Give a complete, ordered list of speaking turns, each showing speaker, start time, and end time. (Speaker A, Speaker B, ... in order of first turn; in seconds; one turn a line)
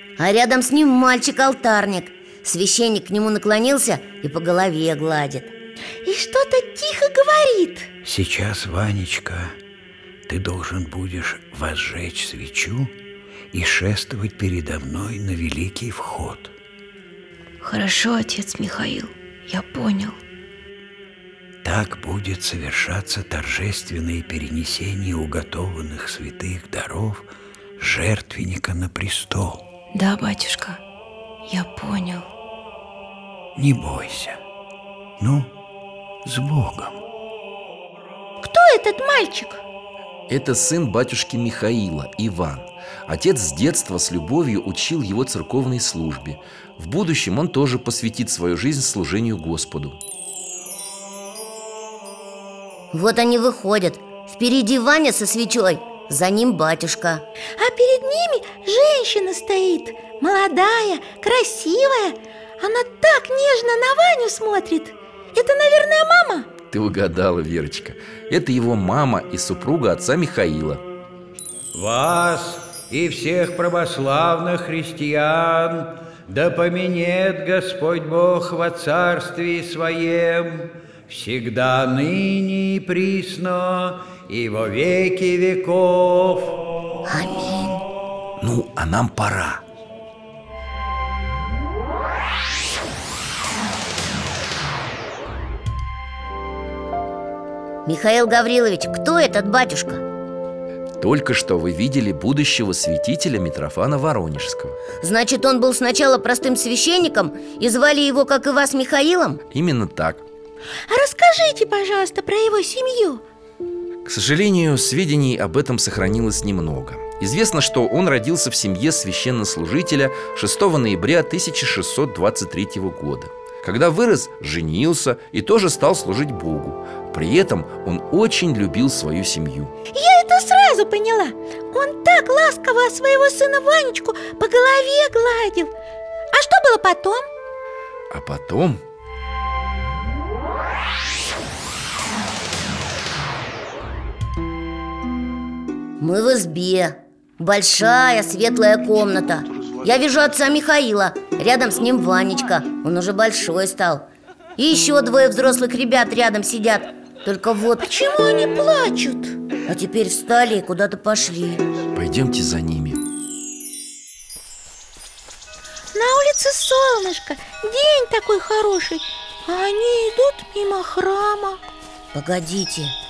Speaker A: 0.2-5.5
Speaker B: 6.0-7.9
Speaker C: 8.0-9.5
Speaker C: 10.3-12.9
Speaker C: 13.5-16.5
Speaker D: 17.6-20.2
Speaker C: 21.6-29.6
Speaker D: 29.9-30.8
Speaker D: 31.4-32.3
Speaker C: 33.5-34.4
Speaker C: 35.2-35.5
Speaker C: 36.2-37.0
Speaker B: 38.4-39.6
Speaker E: 40.3-50.0
Speaker A: 52.9-57.2
Speaker B: 57.6-66.5
Speaker E: 66.7-70.8
Speaker C: 71.7-86.6
Speaker A: 87.1-87.8
Speaker E: 88.4-89.6
Speaker A: 97.9-100.0
Speaker E: 101.0-104.8
Speaker A: 105.0-109.4
Speaker E: 109.5-110.2
Speaker B: 110.9-113.2
Speaker E: 114.0-129.7
Speaker B: 129.9-135.7
Speaker B: 136.3-137.2
Speaker E: 138.1-138.8
Speaker A: 146.0-154.1
Speaker A: 154.6-157.8
Speaker B: 157.8-159.4
Speaker A: 159.7-161.6
Speaker E: 161.9-163.0
Speaker B: 165.9-171.6
Speaker A: 172.1-172.9